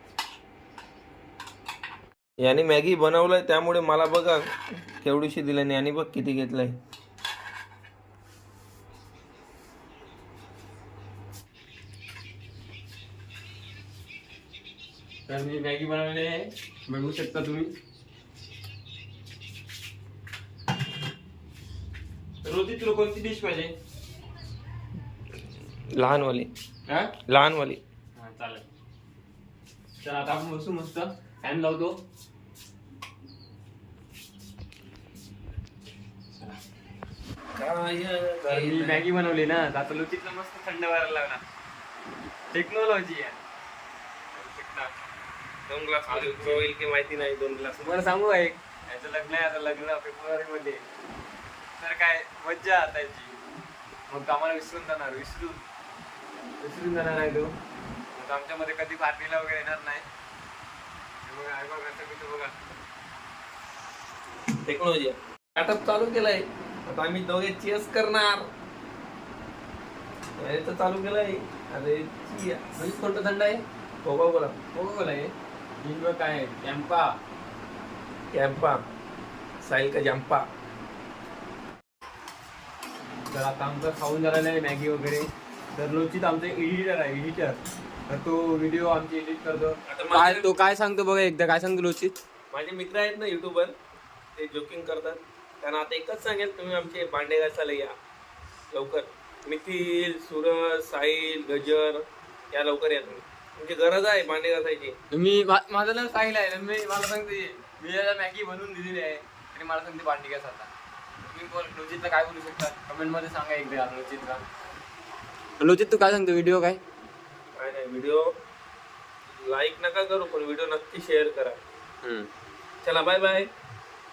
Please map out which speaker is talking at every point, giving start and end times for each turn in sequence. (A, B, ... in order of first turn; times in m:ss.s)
0:02.4-0:06.8 A
0:15.3-0:17.7 B
0:22.4-0:23.7 B
0:26.0-0:26.5 A
0:26.9-0:27.2 B
0:27.3-0:27.8 A
0:28.2-0:28.6 B
0:30.0-0:32.0 B
0:36.4-0:36.6 B
0:37.6-0:39.0 A
0:38.5-0:41.4 B
0:42.5-0:43.4 B
0:44.3-0:44.9 B
0:45.7-0:48.0 A
0:46.1-0:46.7 B
0:47.8-0:50.8 B
0:51.8-0:53.4 B
0:54.1-0:55.6 B
0:56.6-0:57.5 B
0:58.2-1:00.1 B
1:01.3-1:02.5 B
1:04.6-1:08.5 A
1:10.4-1:12.6 A
1:12.8-1:13.6 B
1:14.0-1:14.6 A
1:14.7-1:17.2 B
1:18.3-1:18.8 A
1:19.6-1:20.5 A
1:23.3-1:32.2 B
1:29.9-1:30.5 A
1:32.5-1:33.8 A
1:34.4-1:38.0 A
1:38.7-1:45.0 A
1:45.1-1:50.7 B
1:51.3-1:54.5 B
1:55.6-1:56.8 B
1:57.6-1:58.2 A
1:59.3-2:01.6 A
2:02.0-2:02.3 B
2:02.8-2:03.5 A